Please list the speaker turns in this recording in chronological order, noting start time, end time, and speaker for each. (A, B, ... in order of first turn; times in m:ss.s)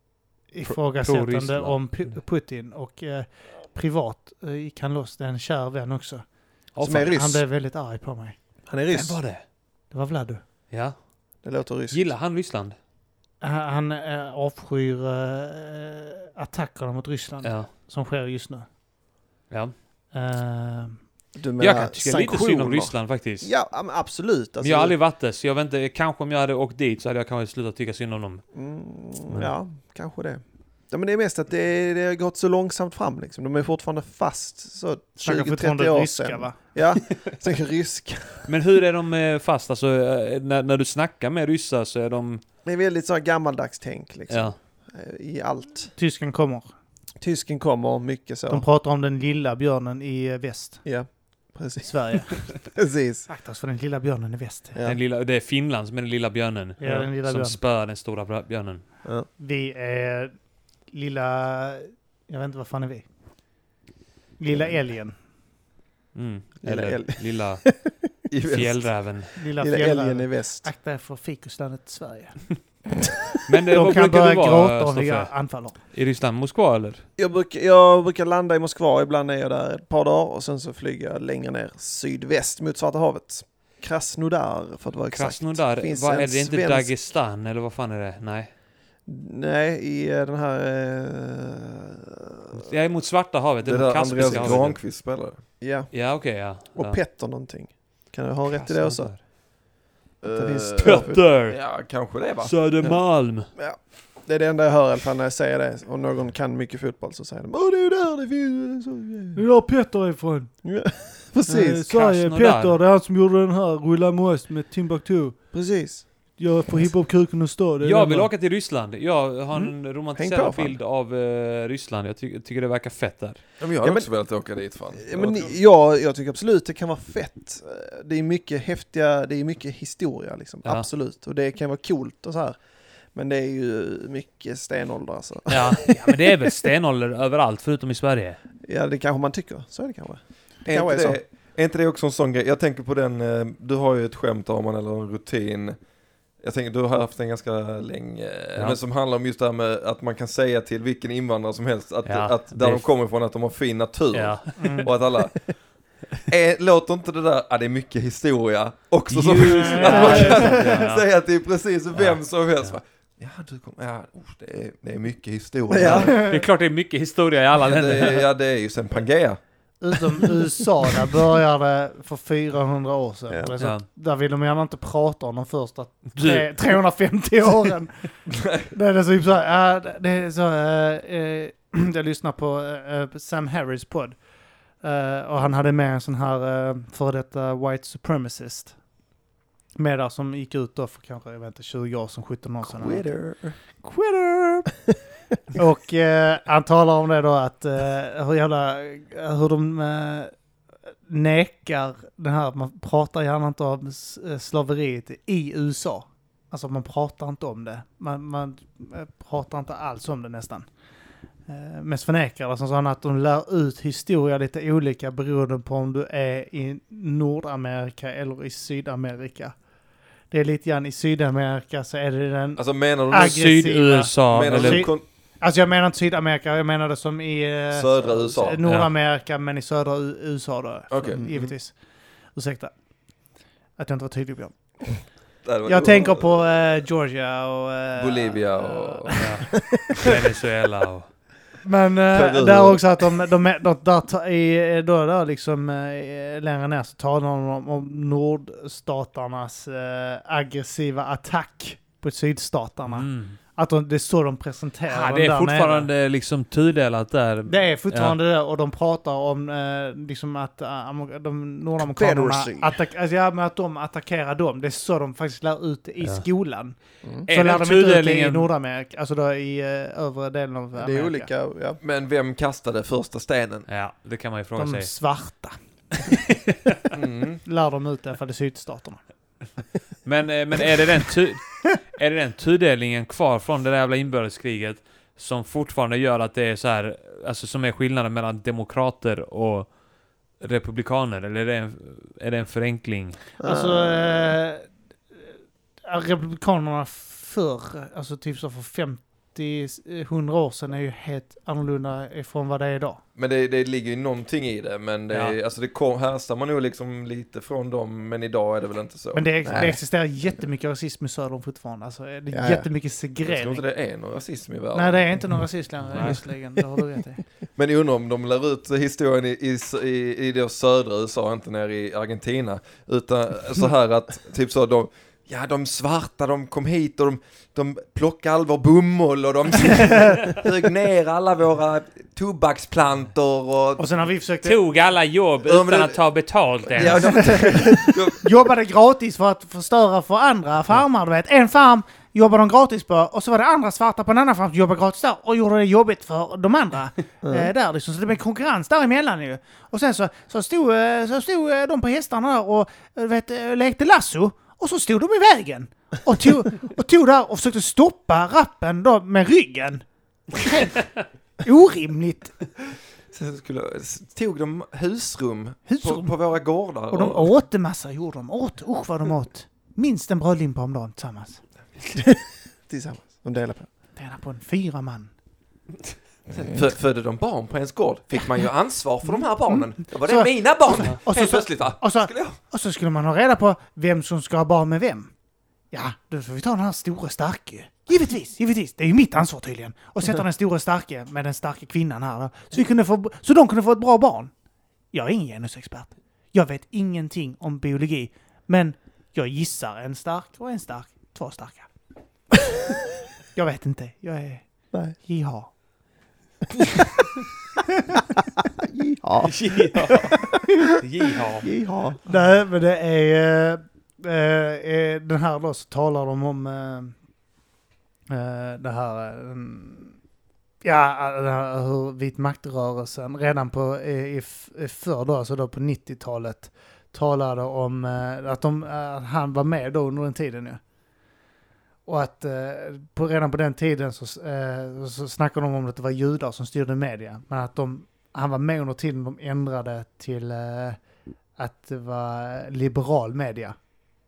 0:00.5-0:06.2 A
0:00.6-0:02.2 B
0:06.7-0:07.1 B
0:06.8-0:07.4 C
0:07.0-0:08.4 A
0:08.6-0:09.2 C
0:08.9-0:09.4 B
0:09.9-0:10.4 A
0:10.7-0:11.0 B
0:11.4-0:12.1 C
0:11.9-0:12.8 B
0:13.4-0:18.6 A
0:17.4-0:17.7 B
0:19.5-0:19.7 B
0:20.1-0:21.0 A
0:21.3-0:25.0 C
0:21.6-0:23.5 B
0:24.6-0:28.4 B
0:28.5-0:38.5 C
0:35.2-0:36.6 A
0:38.4-0:42.4 B
0:42.6-0:45.9 C
0:44.3-0:44.6 B
0:46.0-0:46.7 A
0:47.2-0:48.6 C
0:48.5-0:50.8 A
0:50.8-0:53.3 C
0:51.8-0:52.7 A
0:53.3-0:54.8 A
0:54.8-0:58.8 B
0:56.8-0:57.6 A
0:59.4-1:00.3 A
1:00.9-1:03.0 A
1:04.4-1:05.2 A
1:06.1-1:07.7 B
1:06.6-1:07.9 C
1:08.3-1:09.1 D
1:08.5-1:09.3 B
1:09.4-1:12.6 A
1:09.6-1:10.7 C
1:13.5-1:17.0 B
1:13.7-1:15.8 A
1:17.2-1:26.9 C
1:25.1-1:28.5 B
1:29.0-1:32.6 C
1:32.6-1:34.8 B
1:33.6-1:35.4 D
1:34.2-1:34.8 C
1:35.6-1:39.6 C
1:35.9-1:37.0 B
1:38.5-1:39.2 B
1:40.2-1:42.8 D
1:40.3-1:41.2 C
1:40.8-1:43.5 B
1:42.8-1:49.4 C
1:49.4-1:50.5 A
1:50.6-1:51.9 C
1:51.4-1:58.3 A
1:51.9-1:52.8 B
1:55.5-1:56.4 C
1:57.8-2:03.4 B
1:59.5-2:00.8 C
2:03.6-2:05.6 D
2:03.8-2:16.4 C
2:15.5-2:18.4 B
2:18.6-2:21.2 C
2:20.6-2:25.8 D
2:26.4-2:46.3 D
2:32.0-2:32.9 B
2:34.1-2:34.8 B
2:34.6-2:34.9 A
2:39.1-2:41.1 B
2:39.5-2:40.7 A
2:41.9-2:42.8 B
2:45.7-2:46.2 C
2:45.8-2:48.3 B
2:47.6-2:49.4 D
2:49.8-2:58.2 A
2:53.3-2:53.5 C
2:53.6-2:53.8 B
2:56.2-2:56.5 B
2:58.3-2:58.7 D
2:58.7-3:04.2 A
3:04.8-3:08.8 A
3:09.8-3:13.2 A
3:12.8-3:13.5 D
3:13.8-3:14.7 A
3:15.5-3:20.3 A
3:21.1-3:30.7 A
3:31.5-3:39.6 A
3:40.3-3:51.8 A
3:42.6-3:43.5 D
3:43.2-3:44.9 B
3:44.3-3:45.0 D
3:47.7-3:48.6 D
3:48.6-3:48.9 B
3:50.9-3:51.5 D
3:52.3-3:52.7 A
3:53.8-3:54.9 A
3:55.4-3:56.6 D
3:55.6-3:59.2 A
3:58.0-3:59.3 D
3:59.2-4:01.1 B
4:01.6-4:15.9 A
4:02.1-4:02.9 D
4:12.9-4:13.4 B
4:14.9-4:18.2 B
4:17.5-4:31.3 A
4:21.8-4:22.8 C
4:27.3-4:28.5 B
4:30.8-4:31.8 C
4:31.8-4:33.6 D
4:33.7-4:34.9 B
4:34.6-4:35.6 A
4:36.9-4:37.4 D
4:37.4-4:39.0 A
4:40.0-4:49.7 B
4:50.4-4:53.2 B
4:53.4-4:54.4 C
4:53.4-4:54.7 A
4:55.8-5:03.0 A
5:03.2-5:09.7 D
5:05.1-5:05.4 B
5:09.1-5:13.6 A
5:09.4-5:09.8 C
5:12.3-5:12.7 C
5:13.2-5:15.3 D
5:14.7-5:17.2 A
5:15.9-5:16.2 B
5:17.6-5:33.9 D
5:33.8-5:34.6 A
5:34.4-5:37.3 B
5:35.4-5:36.0 D
5:36.7-5:38.2 D
5:37.0-6:00.8 A
5:37.4-5:37.7 C
5:47.2-5:47.5 C
6:01.4-6:02.3 A
6:03.1-6:07.4 D
6:05.7-6:06.1 A
6:06.9-6:11.4 A
6:12.0-6:13.7 C
6:14.0-6:15.1 A
6:16.5-6:22.4 D
6:19.5-6:25.1 A
6:25.7-6:34.3 A
6:34.9-6:41.7 A
6:43.3-6:45.5 A
6:48.7-6:50.2 C
6:49.2-6:50.3 B
6:50.8-6:51.5 B
6:51.4-6:52.0 C
6:52.0-6:56.9 A
6:58.1-7:00.0 A
7:00.6-7:10.6 A
7:11.8-7:20.8 A
7:21.4-7:23.6 A